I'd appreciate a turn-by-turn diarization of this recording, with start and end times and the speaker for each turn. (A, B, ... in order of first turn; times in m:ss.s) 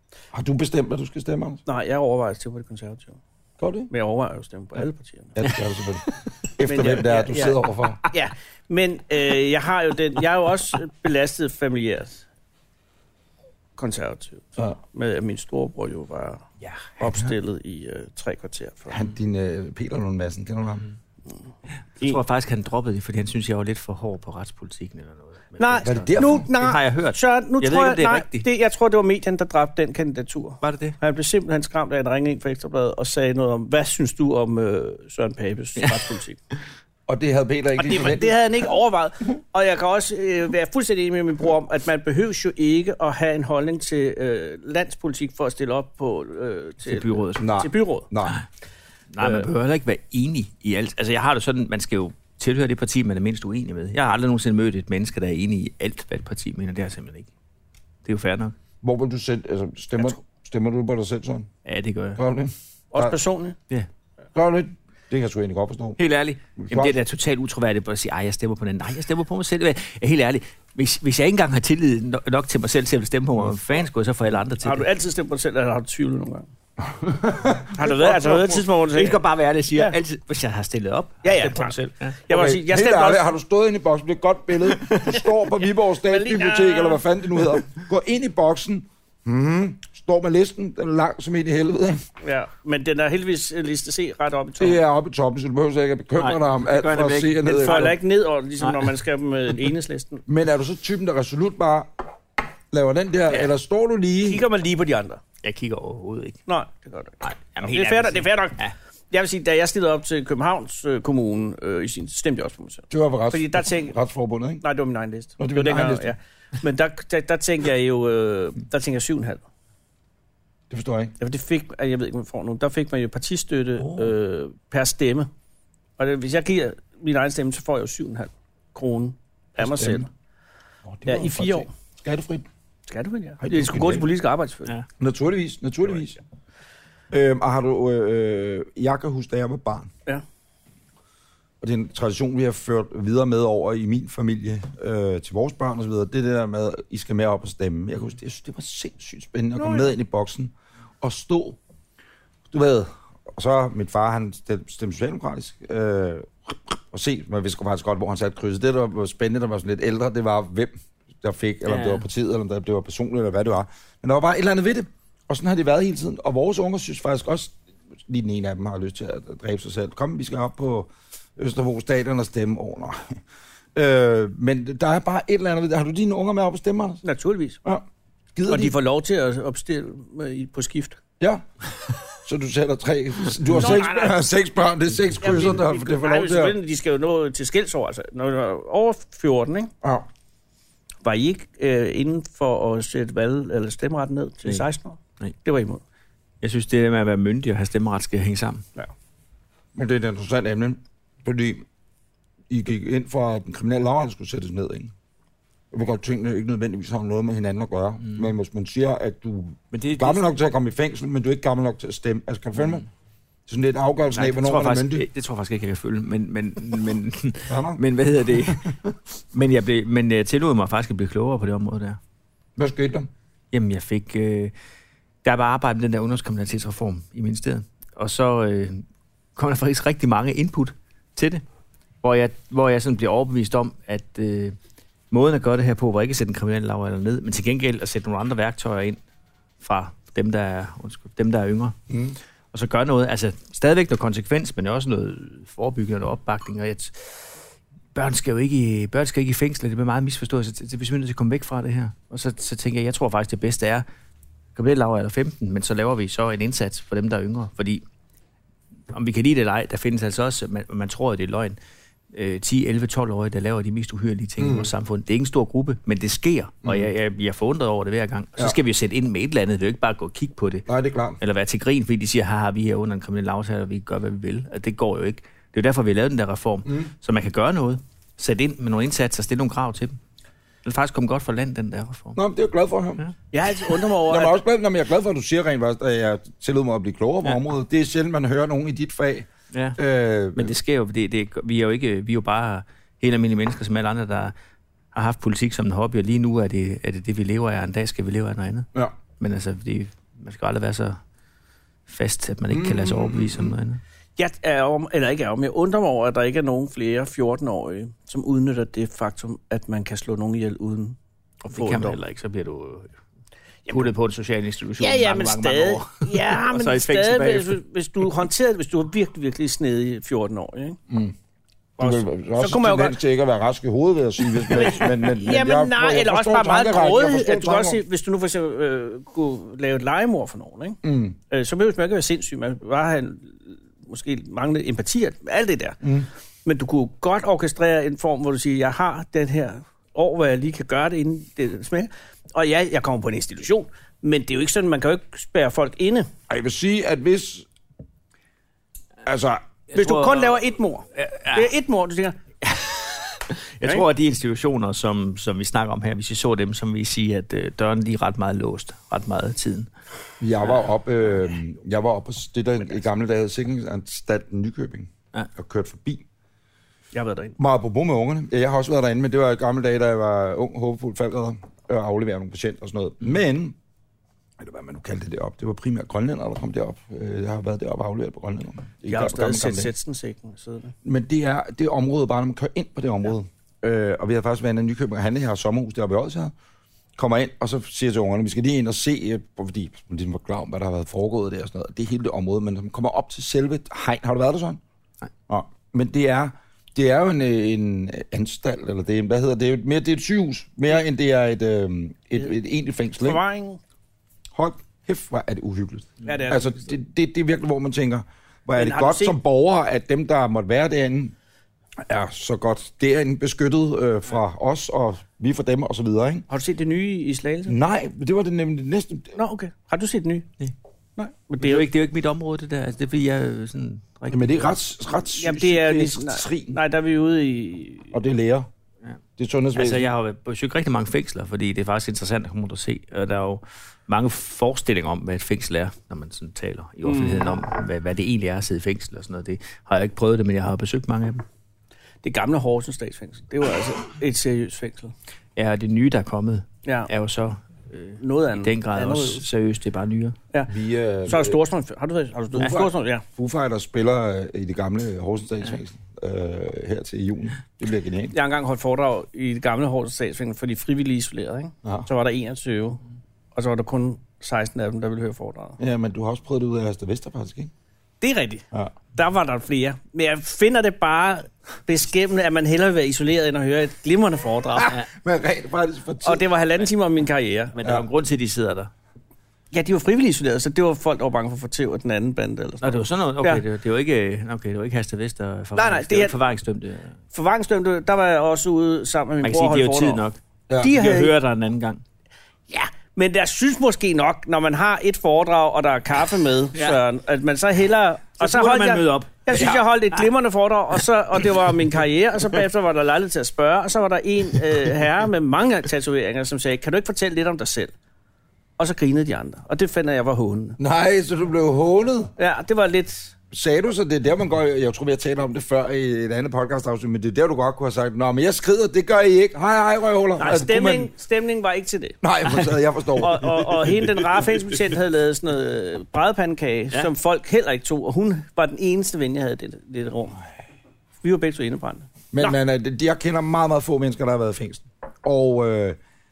0:00.3-0:01.6 A
0:01.7-0:03.2 B
0:03.6-0:03.9 A
0:03.9-0:05.4 B
0:05.4-0:08.0 A
0:06.6-0:12.2 B
0:13.8-0:16.5 B
0:17.0-0:19.0 B
0:18.9-0:20.8 A
0:22.0-0:28.5 C
0:25.6-0:36.4 B
0:25.8-0:26.5 A
0:30.6-0:31.0 C
0:37.1-0:38.4 A
0:37.8-0:48.1 B
0:46.8-0:47.5 C
0:47.4-0:48.4 A
0:49.1-0:57.3 C
0:49.2-0:49.4 B
0:58.0-0:58.5 C
0:58.8-1:01.5 A
1:01.6-1:02.2 C
1:02.2-1:03.2 A
1:02.9-1:03.6 B
1:04.4-1:06.0 A
1:06.0-1:14.9 C
1:06.6-1:07.0 A
1:14.6-1:16.5 B
1:16.8-1:18.6 A
1:17.8-1:19.2 B
1:18.9-1:22.2 C
1:21.2-1:23.2 B
1:22.3-1:32.0 A
1:24.7-1:25.2 C
1:26.0-1:27.0 B
1:32.2-1:34.8 B
1:34.6-1:37.9 A
1:36.2-1:38.0 C
1:37.5-1:40.2 B
1:38.6-1:38.9 C
1:40.3-1:41.9 A
1:42.7-1:44.4 A
1:44.2-1:45.2 B
1:45.4-1:46.4 C
1:46.5-1:48.6 B
1:47.2-1:48.7 C
1:49.1-1:54.0 B
1:52.9-1:54.6 A
1:54.6-1:59.4 B
1:55.4-1:56.1 A
2:00.7-2:01.2 A
2:01.2-2:05.3 B
2:06.0-2:10.1 B
2:09.6-2:10.1 A
2:10.9-2:12.4 A
2:11.1-2:11.7 B
2:12.9-2:14.7 B
2:13.4-2:14.1 A
2:15.0-2:16.2 A
2:17.1-2:19.9 A
2:21.6-2:31.6 A
2:29.6-2:29.9 B
2:32.5-2:47.6 A
2:41.7-2:42.0 C
2:48.1-2:53.2 A
2:53.8-2:57.0 A
2:57.0-2:57.6 B
2:57.6-2:58.8 A
2:58.5-3:01.0 B
3:02.2-3:06.6 A
3:03.5-3:04.2 B
3:05.2-3:09.7 B
3:09.8-3:10.1 A
3:11.0-3:15.8 B
3:16.4-3:18.6 C
3:19.8-3:21.6 A
3:22.5-3:24.9 A
3:25.7-3:32.9 A
3:29.7-3:30.2 C
3:33.5-3:35.1 A
3:34.1-3:38.8 C
3:37.5-3:37.8 A
3:39.3-3:42.0 C
3:42.6-3:43.1 A
3:43.5-3:44.5 C
3:45.2-3:48.8 C
3:49.4-3:51.4 C
3:52.0-3:54.6 C
3:55.1-3:59.0 C
3:59.6-4:01.8 C
4:01.9-4:02.2 A
4:02.5-4:07.4 C
4:08.0-4:13.8 C
4:14.6-4:17.8 C
4:18.9-4:21.6 C
4:22.1-4:30.7 C
4:24.4-4:24.7 A
4:26.6-4:26.9 A
4:30.7-4:31.2 A
4:31.2-4:40.0 C
4:40.6-4:42.2 C
4:42.2-4:43.0 A
4:43.3-4:44.4 B
4:44.0-4:50.5 A
4:49.5-4:49.8 C
4:50.4-4:54.3 C
4:54.9-4:58.7 C
4:59.2-5:01.0 C
5:01.9-5:03.8 C
5:02.5-5:03.6 A
5:04.2-5:11.0 B
5:11.4-5:12.9 C
5:11.5-5:12.0 B
5:13.7-5:17.6 C
5:14.8-5:20.8 B
5:20.9-5:21.2 A
5:21.8-5:23.0 B
5:21.8-5:27.8 A
5:24.2-5:35.8 B
5:30.8-5:31.2 A
5:35.8-5:36.1 A
5:36.4-5:46.1 B
5:46.3-5:47.5 A
5:49.0-5:49.4 A
5:49.7-5:51.5 C
5:49.7-5:52.2 B
5:52.4-5:59.7 C
6:00.2-6:06.0 A
6:06.9-6:07.4 B
6:07.4-6:13.6 A
6:14.4-6:19.7 A
6:18.9-6:20.7 B
6:20.8-6:26.3 A
6:27.0-6:34.6 A
6:35.3-6:43.2 A
6:43.0-6:43.6 B
6:44.4-6:51.2 A
6:46.0-6:46.6 B
6:48.6-6:49.2 B
6:51.8-6:56.3 A
6:56.3-6:57.6 B
6:57.5-6:59.2 A
6:59.2-7:00.3 B
7:01.0-7:01.7 B
7:01.4-7:04.5 C
7:04.1-7:06.6 A
7:05.1-7:07.9 B
7:07.9-7:08.5 A
7:09.2-7:09.9 A
7:09.6-7:21.2 C
7:16.8-7:17.4 B
7:22.0-7:24.9 B
7:25.4-7:30.2 C
7:26.6-7:26.9 B
7:28.0-7:29.2 B
7:30.5-7:31.4 A
7:31.1-7:33.0 B
7:32.4-7:38.2 A
7:38.1-7:42.8 B
7:43.4-7:45.6 B
7:45.6-7:47.5 A
7:48.0-7:54.8 B
7:54.6-7:56.2 A
7:56.0-7:57.6 B
7:57.6-7:58.7 C
7:59.5-8:03.4 B
8:02.6-8:07.0 C
8:05.6-8:06.2 B
8:07.1-8:10.0 B
8:09.2-8:11.8 C
8:10.5-8:10.8 A
8:10.6-8:11.1 B
8:12.5-8:27.7 B
8:18.2-8:20.0 C
8:28.6-8:30.6 B
8:30.6-8:32.1 A
8:32.2-8:33.1 B
8:33.3-8:40.9 A
8:40.2-8:42.0 B
8:42.0-8:43.9 A
8:43.0-8:50.2 B
8:51.0-8:52.4 B
8:52.1-8:55.8 A